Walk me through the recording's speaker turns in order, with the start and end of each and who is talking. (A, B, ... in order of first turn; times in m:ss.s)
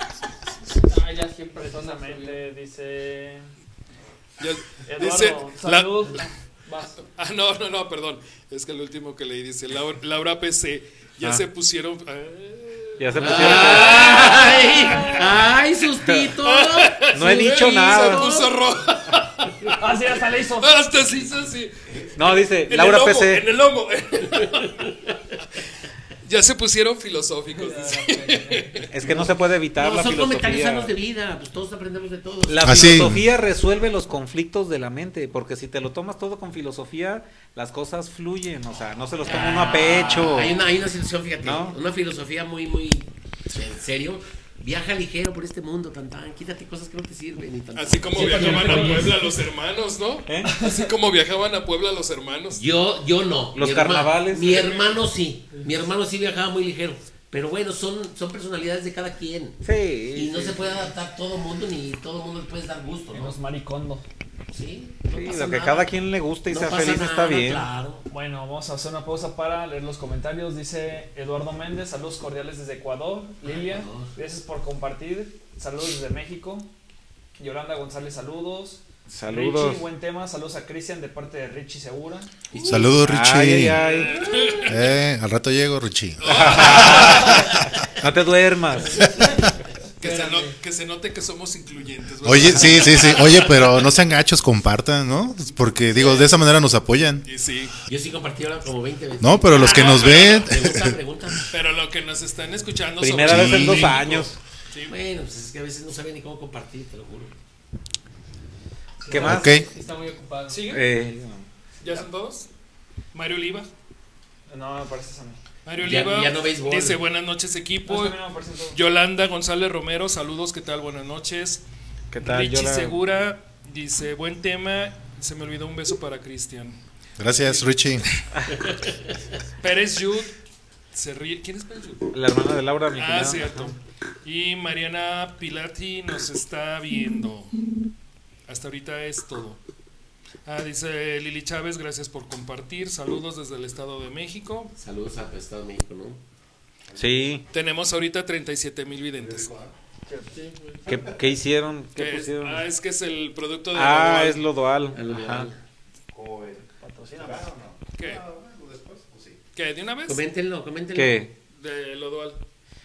0:00.9-0:02.4 A
0:01.6-0:03.5 B
0:04.4-0:06.2 C
0:04.8-0:07.0 B
0:07.0-0:15.3 C
0:13.0-0:14.4 D
0:13.2-0:18.5 E
0:16.4-0:19.8 C
0:17.1-0:18.3 D
0:19.7-0:20.7 B
0:20.6-0:24.9 C
0:22.2-0:23.4 D
0:26.2-0:28.9 C
0:27.6-0:28.6 B
0:28.9-0:30.9 D
0:29.1-0:33.2 E
0:32.5-0:40.6 D
0:32.6-0:33.2 F
0:39.2-0:48.7 E
0:41.4-0:41.8 D
0:47.7-0:52.6 C
0:48.2-0:49.2 A
0:48.2-0:49.1 B
0:50.3-0:50.5 D
0:50.5-0:50.8 B
0:52.5-0:59.6 E
0:53.5-0:54.7 D
0:54.4-0:55.0 C
0:59.6-1:00.9 D
1:00.1-1:03.4 E
1:03.1-1:04.0 B
1:04.5-1:05.9 E
1:05.1-1:07.7 D
1:06.5-1:08.0 E
1:08.1-1:16.7 B
1:13.4-1:14.1 E
1:17.4-1:22.3 B
1:19.1-1:19.8 D
1:22.5-1:23.0 E
1:22.6-1:23.8 F
1:22.9-1:24.2 D
1:23.7-1:24.8 C
1:24.6-1:27.0 F
1:26.2-1:27.6 C
1:26.2-1:29.1 D
1:30.0-1:33.7 C
1:30.0-1:30.6 A
1:32.2-1:37.2 F
1:37.2-1:37.7 C
1:37.9-1:41.5 E
1:39.2-1:41.0 F
1:39.5-1:40.4 C
1:41.5-1:44.9 C
1:43.0-1:44.4 D
1:43.2-1:44.0 F
1:44.9-1:47.3 E
1:49.0-1:50.6 A
1:49.1-1:49.6 D
1:49.2-1:49.7 F
1:50.5-1:50.8 C
1:50.6-1:51.5 D
1:51.8-1:52.5 C
1:53.1-1:53.7 C
1:54.5-1:55.4 B
1:55.6-1:58.2 C
1:55.8-1:57.0 E
1:57.8-1:58.8 B
1:58.7-2:01.6 C
2:02.1-2:03.0 D
2:02.2-2:06.8 C
2:07.2-2:08.1 F
2:07.3-2:07.7 C
2:09.6-2:10.3 C
2:10.9-2:12.1 C
2:12.1-2:13.7 D
2:12.9-2:17.6 C
2:18.5-2:19.6 C
2:20.4-2:24.7 C
2:24.8-2:26.2 E
2:26.9-2:27.2 F
2:27.0-2:27.4 D
2:27.5-2:29.5 C
2:29.2-2:29.7 F
2:30.1-2:30.4 B
2:30.4-2:30.7 A
2:30.9-2:32.6 D
2:32.0-2:34.4 C
2:33.7-2:35.5 D
2:34.9-2:35.6 E
2:36.1-2:39.4 F
2:36.8-2:37.5 B
2:38.0-2:38.2 C
2:39.5-2:40.2 C
2:40.0-2:41.2 E
2:40.9-2:41.3 D
2:41.5-2:42.4 C